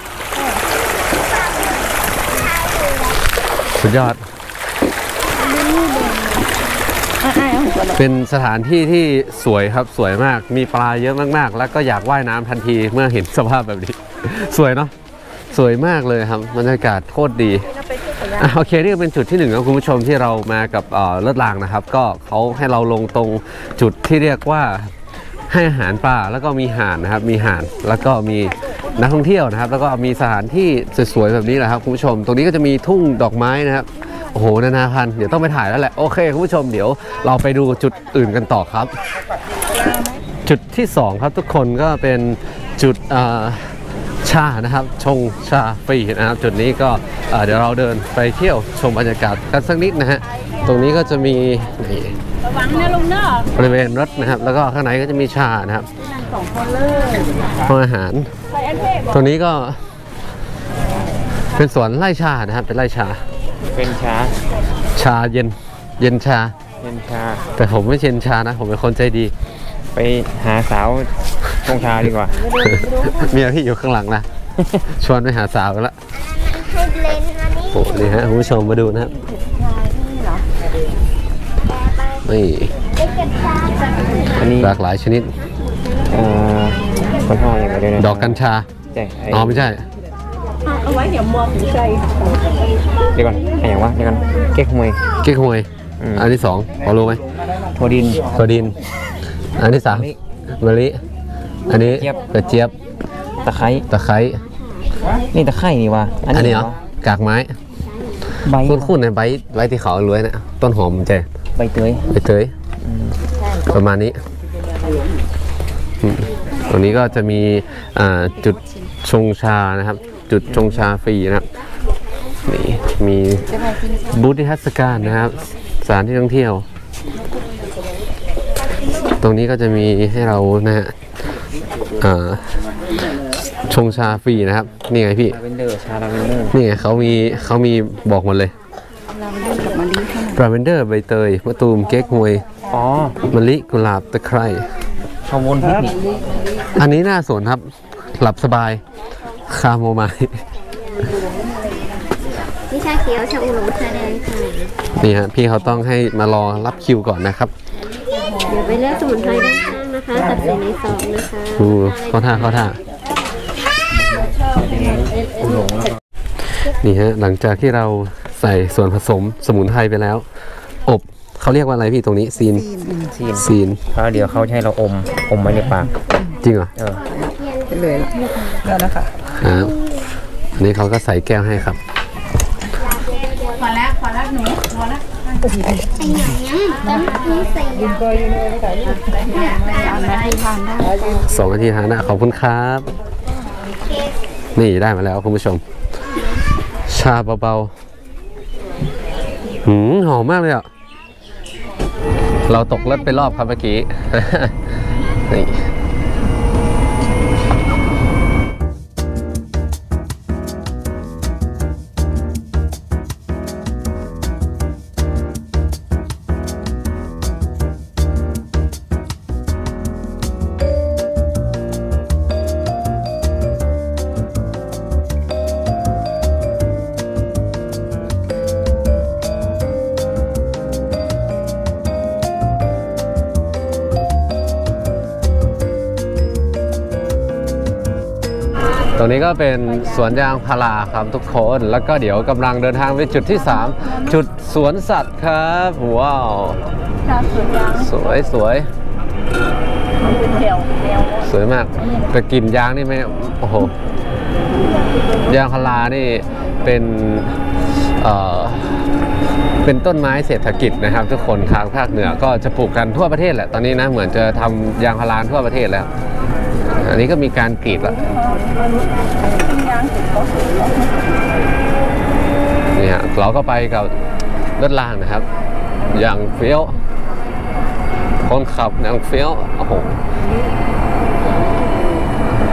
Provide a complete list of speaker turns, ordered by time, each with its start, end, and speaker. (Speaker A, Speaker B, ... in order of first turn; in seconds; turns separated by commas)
Speaker A: 3.8-4.3, Speaker B: 5.6-6.3, Speaker B: 7.2-8.0, Speaker A: 8.0-14.9, Speaker A: 15.5-17.7, Speaker B: 18.0-18.3, Speaker A: 18.3-24.9, Speaker A: 25.5-38.9, Speaker A: 40.5-43.7, Speaker A: 44.2-52.2, Speaker B: 52.5-53.5, Speaker A: 53.5-55.9, Speaker B: 56.3-57.2, Speaker A: 57.6-58.3, Speaker B: 58.7-59.0, Speaker A: 59.1-59.8, Speaker A: 61.5-63.2, Speaker C: 63.7-64.3, Speaker A: 65.0-66.5, Speaker C: 66.8-67.5, Speaker A: 67.5-69.3, Speaker C: 69.9-72.5, Speaker A: 72.5-74.3, Speaker A: 74.8-76.0, Speaker A: 77.6-79.1, Speaker B: 79.5-80.4, Speaker A: 82.1-82.8, Speaker C: 84.4-84.8, Speaker A: 84.6-85.3, Speaker C: 86.1-88.4, Speaker A: 88.0-88.7, Speaker C: 88.9-89.7, Speaker A: 89.3-89.8, Speaker B: 90.7-92.3, Speaker C: 93.1-95.0, Speaker A: 95.2-97.2, Speaker C: 96.0-96.3, Speaker C: 97.8-98.3, Speaker A: 98.3-98.8, Speaker A: 99.6-101.0, Speaker C: 99.9-100.2, Speaker A: 101.7-102.7, Speaker C: 101.7-102.2, Speaker C: 103.4-103.9, Speaker A: 103.9-104.4, Speaker C: 105.3-106.8, Speaker A: 106.3-107.6, Speaker C: 108.4-108.9, Speaker A: 108.6-111.3, Speaker C: 111.6-112.1, Speaker A: 112.1-112.5, Speaker C: 112.8-113.2, Speaker A: 113.6-114.2, Speaker A: 116.0-121.5, Speaker A: 122.5-126.7, Speaker A: 129.2-130.9, Speaker A: 132.0-132.6, Speaker A: 133.7-135.4, Speaker C: 135.3-136.6, Speaker A: 136.5-138.5, Speaker B: 139.2-140.1, Speaker A: 140.2-142.4, Speaker C: 142.7-143.2, Speaker A: 143.3-144.7, Speaker C: 145.3-146.1, Speaker A: 146.7-147.6, Speaker A: 148.2-148.8, Speaker A: 149.5-150.4, Speaker D: 152.7-154.7, Speaker A: 154.9-157.5, Speaker D: 158.5-161.5, Speaker A: 161.4-162.8, Speaker C: 164.5-166.0, Speaker A: 166.7-170.2, Speaker A: 170.9-172.8, Speaker C: 172.9-175.9, Speaker A: 173.4-173.8, Speaker A: 176.3-176.7, Speaker C: 176.8-177.2, Speaker A: 179.2-179.8, Speaker A: 180.6-181.8, Speaker B: 183.5-185.0, Speaker D: 186.1-188.0, Speaker B: 186.9-187.5, Speaker B: 188.9-191.1, Speaker A: 191.2-192.9, Speaker A: 194.6-195.6, Speaker A: 196.9-197.7, Speaker A: 199.6-200.7, Speaker A: 202.5-204.6, Speaker A: 205.3-205.7, Speaker A: 238.9-246.6, Speaker B: 247.1-247.8, Speaker A: 247.7-248.7, Speaker B: 250.2-251.2, Speaker A: 251.2-253.8, Speaker A: 255.3-258.9, Speaker A: 259.6-265.9, Speaker A: 266.8-268.1, Speaker B: 268.2-270.9, Speaker A: 272.8-273.9, Speaker A: 274.6-275.3, Speaker A: 275.9-276.8, Speaker A: 278.2-280.0